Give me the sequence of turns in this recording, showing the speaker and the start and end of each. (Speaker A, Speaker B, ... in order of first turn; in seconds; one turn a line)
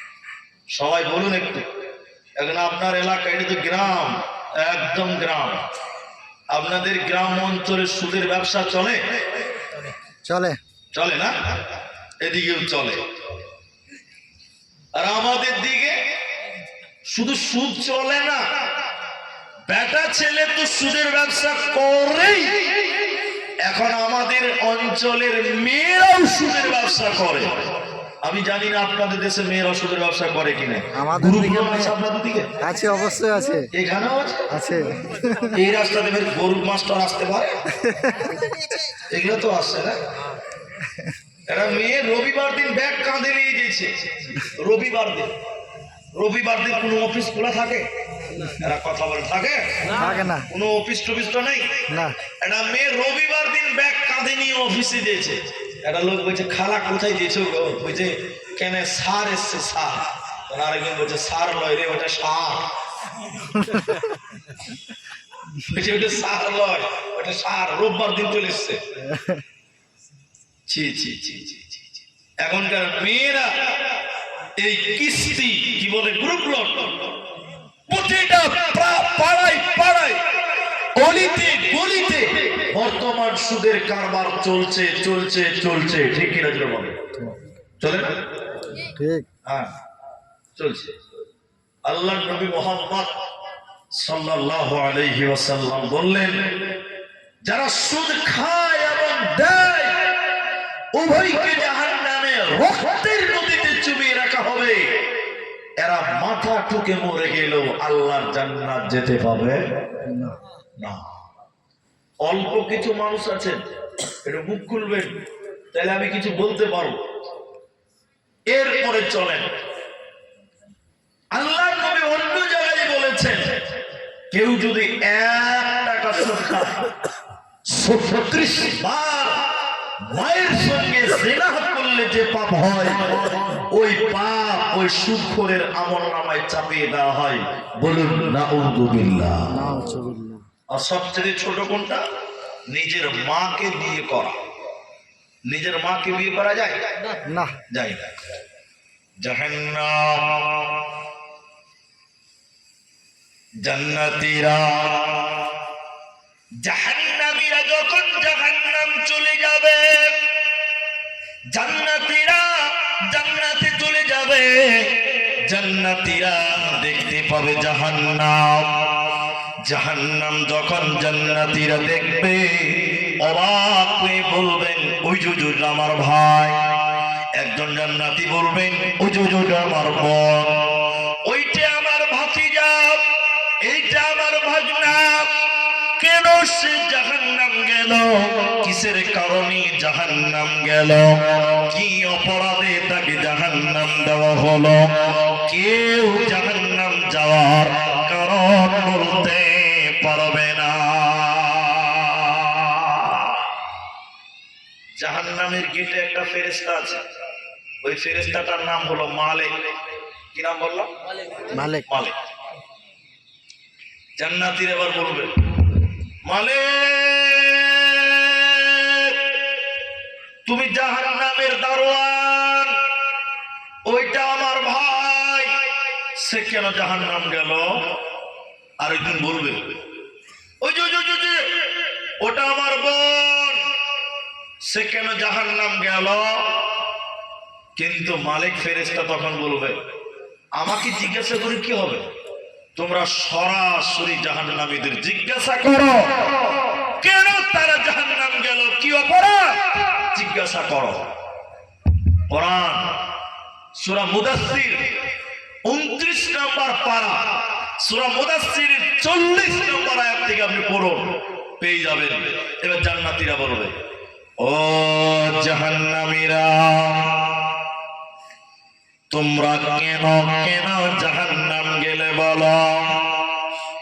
Speaker A: 0.7-1.6
Speaker A: 2.4-5.6
Speaker A: 6.5-9.0
Speaker B: 10.2-10.6
Speaker A: 10.9-11.4
Speaker A: 12.2-13.1
Speaker A: 14.9-16.0
Speaker A: 17.1-18.4
Speaker A: 19.7-22.8
Speaker A: 23.6-27.6
Speaker A: 28.2-32.5
Speaker B: 30.9-31.9
Speaker B: 32.6-33.7
Speaker A: 33.7-34.5
Speaker B: 34.5-35.5
Speaker A: 35.5-37.6
Speaker B: 37.7-38.6
Speaker A: 39.1-40.0
Speaker B: 40.8-41.1
Speaker A: 41.5-45.3
Speaker A: 46.1-47.9
Speaker A: 48.5-51.9
Speaker B: 49.9-50.5
Speaker B: 51.9-52.2
Speaker A: 52.4-62.7
Speaker A: 63.5-63.8
Speaker A: 65.6-68.8
Speaker B: 69.0-69.4
Speaker A: 70.7-71.8
Speaker A: 72.4-73.7
Speaker A: 74.6-76.9
Speaker A: 77.9-80.2
Speaker A: 81.0-87.0
Speaker A: 87.8-88.2
Speaker B: 88.8-89.3
Speaker A: 89.5-89.7
Speaker A: 90.6-91.1
Speaker A: 91.8-93.1
Speaker A: 93.9-96.8
Speaker A: 97.4-100.1
Speaker A: 100.9-105.0
Speaker A: 105.8-109.6
Speaker B: 110.0-110.3
Speaker A: 110.8-111.1
Speaker A: 112.2-113.7
Speaker A: 114.2-115.2
Speaker A: 115.7-117.1
Speaker A: 118.5-119.5
Speaker A: 121.3-123.6
Speaker A: 124.3-126.9
Speaker A: 127.7-129.5
Speaker A: 130.0-139.5
Speaker B: 139.5-140.4
Speaker A: 140.7-142.0
Speaker A: 142.7-144.4
Speaker A: 145.5-146.9
Speaker B: 147.2-147.6
Speaker A: 147.7-148.1
Speaker A: 149.2-150.8
Speaker A: 153.6-155.5
Speaker A: 156.6-160.2
Speaker A: 161.5-164.9
Speaker A: 165.5-169.0
Speaker A: 169.6-183.0
Speaker A: 183.6-185.3
Speaker A: 186.0-203.5
Speaker A: 205.0-207.0
Speaker A: 207.8-209.8
Speaker A: 210.3-210.9
Speaker B: 211.5-211.8
Speaker A: 211.9-212.2
Speaker A: 214.2-215.3
Speaker A: 216.2-219.3
Speaker A: 220.5-222.8
Speaker A: 223.9-225.6
Speaker A: 226.2-227.7
Speaker A: 228.8-229.6
Speaker A: 230.6-231.7
Speaker A: 232.2-233.6
Speaker A: 234.6-236.4
Speaker A: 237.8-239.8
Speaker A: 240.6-242.1
Speaker A: 242.8-246.3
Speaker A: 247.0-251.1
Speaker A: 252.3-253.0
Speaker A: 253.8-254.9
Speaker A: 255.7-263.7
Speaker A: 264.4-267.6
Speaker A: 269.1-273.4